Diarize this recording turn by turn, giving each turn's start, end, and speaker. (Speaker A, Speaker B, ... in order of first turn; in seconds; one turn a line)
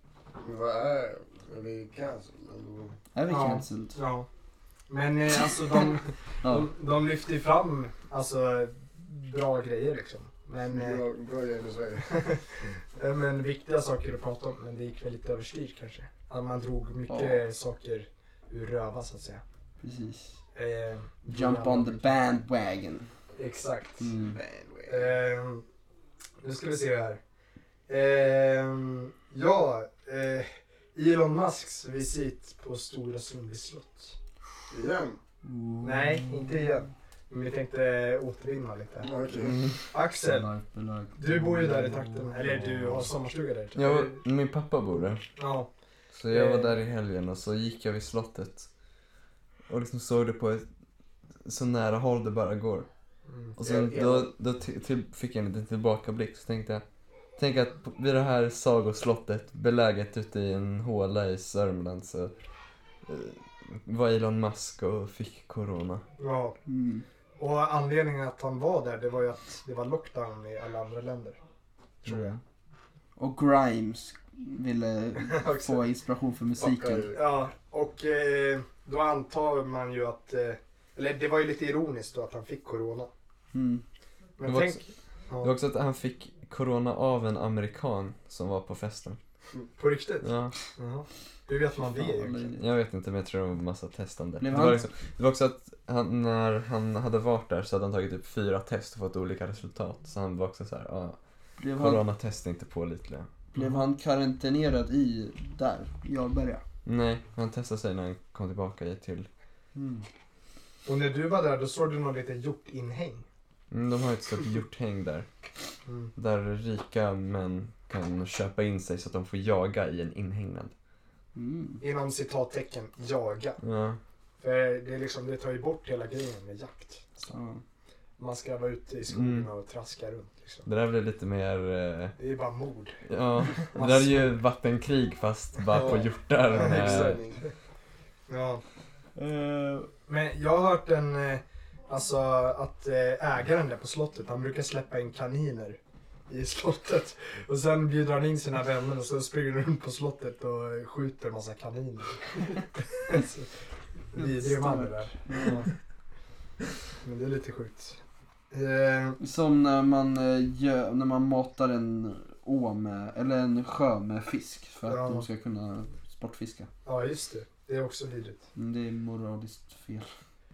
Speaker A: 0.4-3.0
Speaker B: 3.1-4.0
Speaker C: 3.3-4.3
Speaker C: 4.9-11.0
Speaker A: 10.7-12.1
Speaker C: 12.0-19.4
Speaker B: 17.1-17.4
Speaker B: 19.8-20.4
Speaker C: 20.5-22.1
Speaker B: 21.3-23.1
Speaker C: 23.4-24.1
Speaker B: 24.0-24.4
Speaker A: 24.2-25.1
Speaker C: 24.9-25.6
Speaker C: 26.4-27.2
Speaker C: 27.9-34.2
Speaker A: 34.7-35.2
Speaker B: 35.4-36.8
Speaker C: 35.8-39.1
Speaker A: 39.0-39.6
Speaker C: 39.9-40.5
Speaker B: 40.2-43.0
Speaker C: 41.1-44.2
Speaker D: 43.7-45.2
Speaker C: 45.4-45.7
Speaker D: 46.1-48.7
Speaker C: 46.3-46.7
Speaker D: 49.7-50.6
Speaker D: 51.4-52.9
Speaker C: 53.3-53.5
Speaker D: 53.6-56.8
Speaker A: 53.6-54.3
Speaker D: 57.4-62.3
Speaker D: 63.1-66.0
Speaker C: 66.2-66.6
Speaker B: 66.7-67.0
Speaker C: 67.4-71.4
Speaker C: 72.0-72.3
Speaker B: 72.0-72.4
Speaker B: 73.2-77.1
Speaker C: 75.2-75.8
Speaker A: 76.6-77.2
Speaker C: 77.1-83.1
Speaker B: 83.5-83.8
Speaker C: 84.4-85.5
Speaker D: 84.4-84.8
Speaker D: 85.4-89.2
Speaker C: 89.8-92.5
Speaker D: 90.2-90.5
Speaker B: 91.7-92.6
Speaker D: 92.6-101.2
Speaker B: 94.4-94.9
Speaker B: 101.6-102.0
Speaker D: 101.7-103.4
Speaker B: 103.5-106.6
Speaker C: 103.5-103.8
Speaker D: 106.8-109.3
Speaker B: 109.8-110.0
Speaker C: 110.8-113.2
Speaker D: 113.7-115.3
Speaker C: 115.8-116.1
Speaker D: 116.2-120.7
Speaker B: 121.3-121.8
Speaker C: 121.8-123.6
Speaker D: 123.6-124.0
Speaker C: 124.4-127.3
Speaker B: 127.3-127.6
Speaker C: 128.2-130.7
Speaker D: 129.1-129.5
Speaker D: 130.7-132.2
Speaker C: 132.2-134.3
Speaker D: 133.1-137.2
Speaker C: 135.7-137.5
Speaker A: 136.8-137.2
Speaker B: 136.8-137.1
Speaker C: 138.3-138.6
Speaker B: 139.2-139.9
Speaker C: 140.1-153.5
Speaker C: 154.1-155.7
Speaker B: 154.2-155.6
Speaker C: 157.0-158.0
Speaker C: 158.5-159.2
Speaker B: 159.2-166.7
Speaker C: 164.8-165.2
Speaker C: 166.8-168.4
Speaker B: 168.6-170.1